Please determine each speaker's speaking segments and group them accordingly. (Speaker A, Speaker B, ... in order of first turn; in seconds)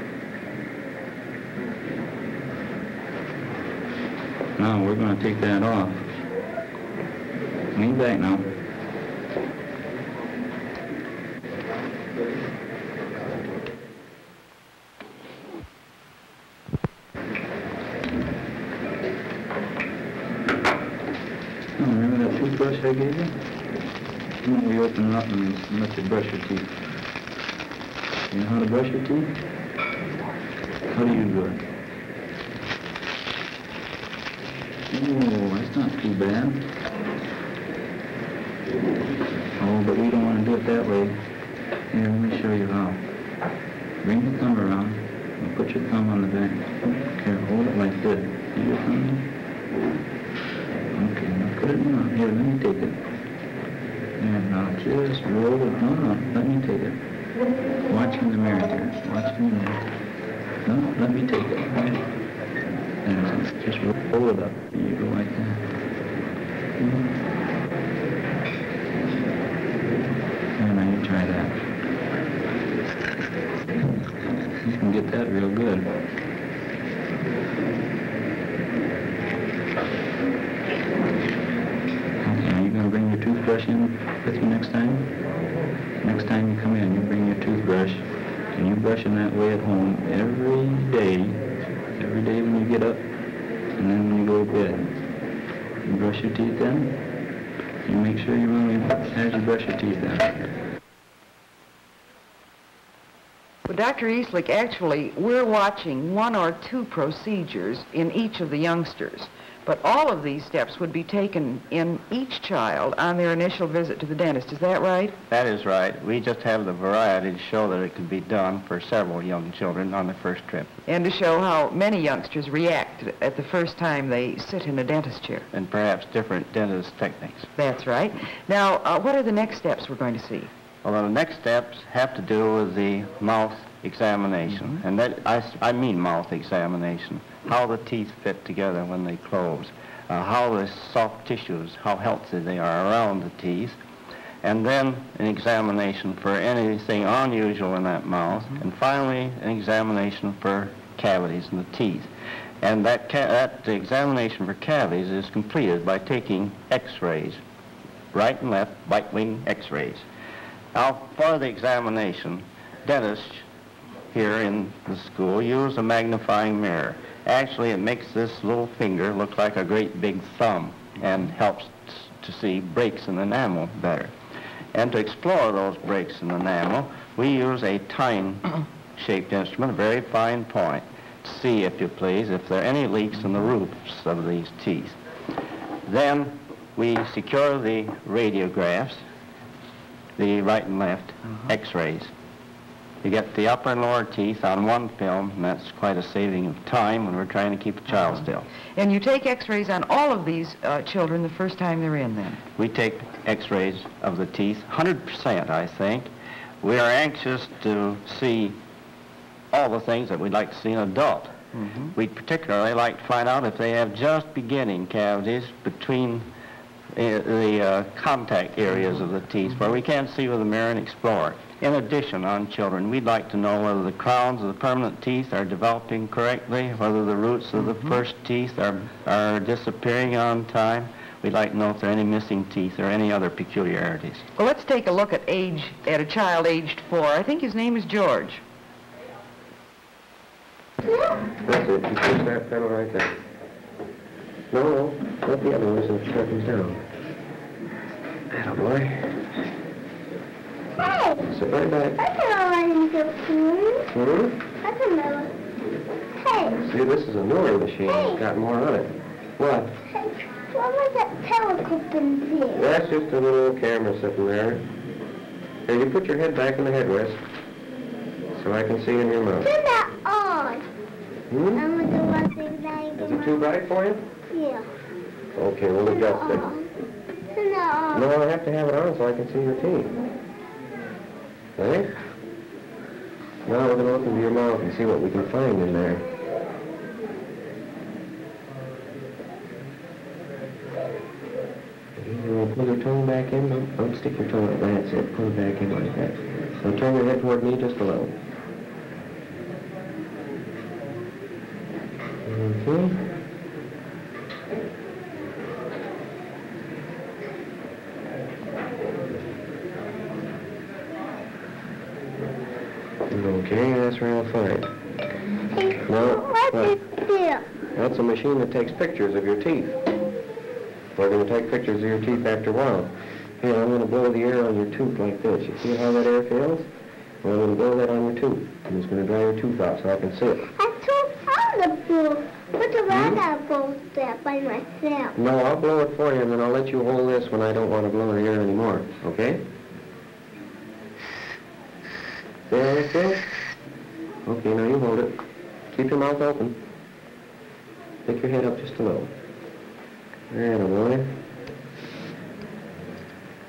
Speaker A: 4.6-6.2, 7.7-8.5, 21.8-23.6, 24.4-26.8, 28.3-29.4, 30.9-31.6, 34.9-36.7, 39.6-41.3, 41.9-43.1, 44.0-49.3, 50.9-53.0, 54.2-57.0, 57.9-60.0, 60.6-62.2, 63.0-65.7, 66.8-67.2, 70.5-71.6, 74.6-76.0, 82.2-85.2, 86.0-93.0, 93.8-94.9, 95.8-97.0, 97.8-100.5
Speaker B: 103.7-115.2, 120.9-125.5, 127.6-130.5, 198.8-202.4, 211.5-211.9, 234.4-238.4
Speaker C: 115.3-120.7, 125.5-127.5, 130.8-143.8, 144.4-152.1, 152.6-157.4, 158.1-160.0, 160.7-163.4, 164.1-174.1, 174.7-185.0, 185.9-189.0, 190.2-192.1, 193.0-198.5, 202.6-206.1, 206.6-208.6, 209.5-211.4, 212.0-216.3, 216.9-234.2
Speaker D: 241.3-243.2, 244.5-246.8, 248.3-249.1, 251.3-252.0, 253.9-254.4, 256.6-259.8, 262.5-264.7, 265.7-267.2, 268.4-269.5, 271.3-271.7, 273.0-274.1, 275.3-276.5, 277.9-279.9, 281.6-281.9, 283.5-286.1, 292.0-298.2, 302.2-303.0, 313.1-314.7, 315.8-316.8, 317.7-319.8, 321.0-326.7, 327.2-330.5, 332.9-333.2, 335.1-339.5, 342.5-343.3, 344.3-346.6, 348.1-349.1, 350.3-351.2
Speaker E: 250.8-251.3, 252.0-253.9, 254.6-255.3, 256.2-256.6, 257.9-258.2, 259.9-262.7, 269.4-270.6, 271.6-273.4, 274.3-274.7, 275.9-276.7, 277.3-278.1, 315.5-317.4, 330.6-335.2